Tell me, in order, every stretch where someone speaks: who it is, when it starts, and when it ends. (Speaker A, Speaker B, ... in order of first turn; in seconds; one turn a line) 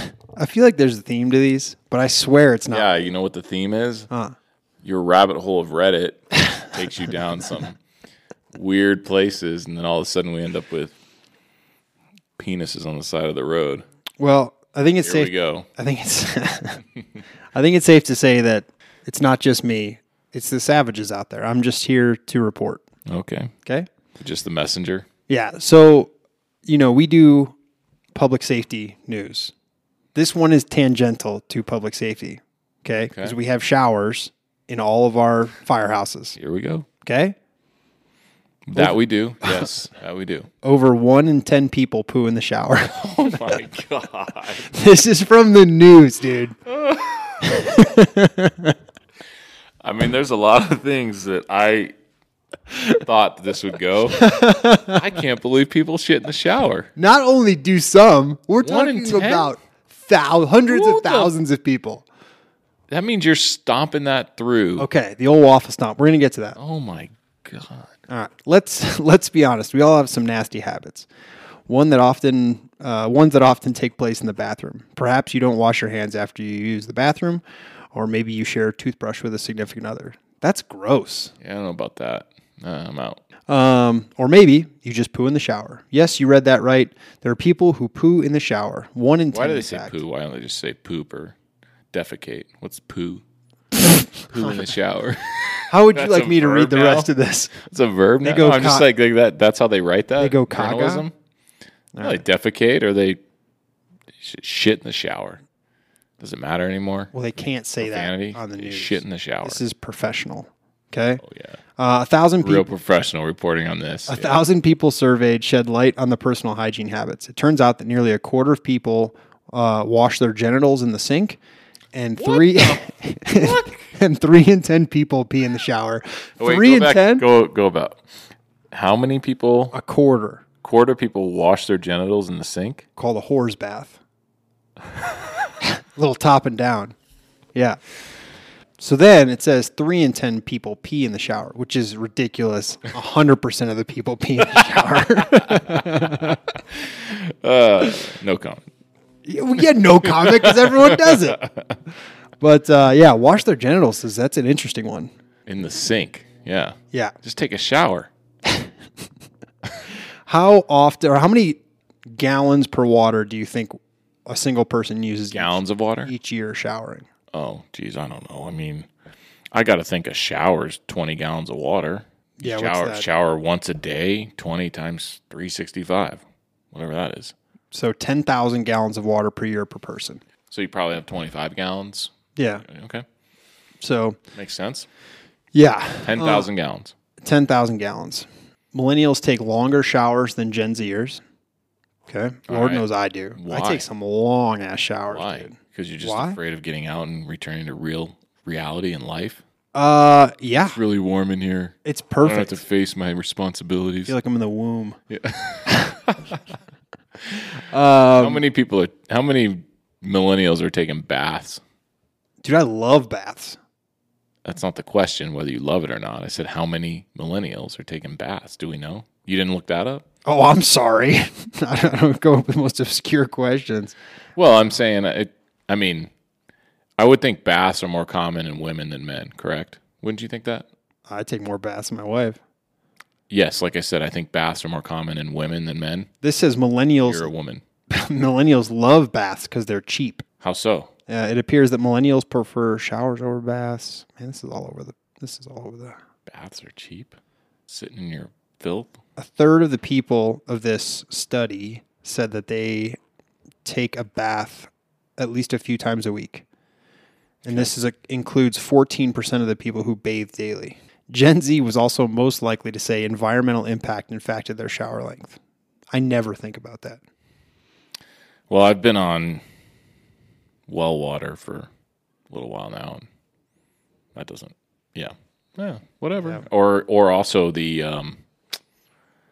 Speaker A: 0.4-2.9
Speaker B: 2.7-4.1
Speaker A: 4.1-4.3
Speaker B: 4.8-7.8
Speaker B: 8.5-10.9
Speaker B: 12.4-13.8
Speaker A: 14.2-16.8
Speaker B: 15.0-15.7
Speaker A: 17.5-22.8
Speaker B: 23.1-23.5
Speaker B: 24.2-25.1
Speaker A: 25.3-26.1
Speaker A: 26.7-27.6
Speaker A: 28.1-29.5
Speaker A: 30.1-36.4
Speaker B: 36.4-36.9
Speaker A: 37.0-37.4
Speaker B: 38.7-40.5
Speaker A: 38.8-39.6
Speaker A: 40.6-43.6
Speaker B: 42.9-44.7
Speaker A: 44.6-46.6
Speaker B: 46.7-47.8
Speaker A: 47.4-48.8
Speaker B: 49.8-52.0
Speaker B: 52.9-56.9
Speaker A: 54.2-55.0
Speaker A: 57.0-62.0
Speaker B: 58.6-59.5
Speaker B: 60.7-61.3
Speaker B: 62.9-64.9
Speaker A: 64.8-66.6
Speaker B: 66.6-67.9
Speaker A: 68.1-71.1
Speaker A: 71.7-77.4
Speaker A: 77.9-81.3
Speaker B: 81.4-83.2
Speaker A: 83.5-90.0
Speaker B: 89.3-91.4
Speaker B: 91.9-93.2
Speaker B: 94.3-101.1
Speaker A: 95.7-97.6
Speaker A: 98.2-98.9
Speaker A: 100.2-101.1
Speaker A: 101.9-102.2
Speaker B: 102.0-103.2
Speaker B: 104.2-105.4
Speaker B: 106.2-107.1
Speaker A: 107.1-111.2
Speaker B: 107.8-109.6
Speaker B: 111.2-111.6
Speaker A: 111.8-112.7
Speaker B: 112.4-114.4
Speaker A: 114.1-121.4
Speaker A: 121.9-127.2
Speaker B: 122.2-123.9
Speaker B: 126.4-128.0
Speaker B: 128.7-129.7
Speaker A: 129.7-130.4
Speaker B: 130.6-132.8
Speaker A: 133.0-134.0
Speaker A: 135.6-136.9
Speaker A: 138.8-146.4
Speaker B: 145.4-148.7
Speaker A: 149.2-151.5
Speaker B: 150.0-151.6
Speaker A: 152.4-155.1
Speaker B: 155.5-158.1
Speaker A: 160.3-167.1
Speaker B: 165.3-166.1
Speaker B: 167.3-168.9
Speaker B: 169.5-177.3
Speaker A: 172.4-173.1
Speaker A: 177.7-180.2
Speaker B: 180.5-182.1
Speaker A: 182.4-182.7
Speaker B: 182.6-183.1
Speaker A: 183.8-184.2
Speaker B: 184.3-184.9
Speaker A: 185.5-186.5
Speaker B: 186.0-186.9
Speaker A: 187.2-191.2
Speaker A: 192.1-196.4
Speaker B: 192.5-192.8
Speaker B: 193.4-193.9
Speaker B: 195.1-199.4
Speaker A: 199.7-200.8
Speaker B: 200.6-204.1
Speaker A: 201.8-202.6
Speaker A: 204.1-205.0
Speaker B: 205.1-206.4
Speaker A: 205.7-206.0
Speaker A: 207.6-208.4
Speaker B: 208.2-211.6
Speaker A: 212.4-213.6
Speaker B: 214.4-220.0
Speaker A: 220.2-224.0
Speaker B: 224.4-226.1
Speaker B: 227.0-230.7
Speaker A: 231.1-232.4
Speaker B: 233.3-236.1
Speaker A: 236.2-237.3
Speaker B: 237.0-237.6
Speaker A: 237.9-240.2
Speaker B: 240.4-240.9
Speaker A: 241.1-246.0
Speaker B: 246.3-247.1
Speaker B: 247.7-248.9
Speaker A: 249.2-253.0
Speaker A: 253.7-256.4
Speaker A: 257.4-265.4
Speaker A: 265.9-267.0
Speaker B: 268.5-269.4
Speaker B: 270.7-271.7
Speaker B: 272.3-273.1
Speaker B: 274.1-278.2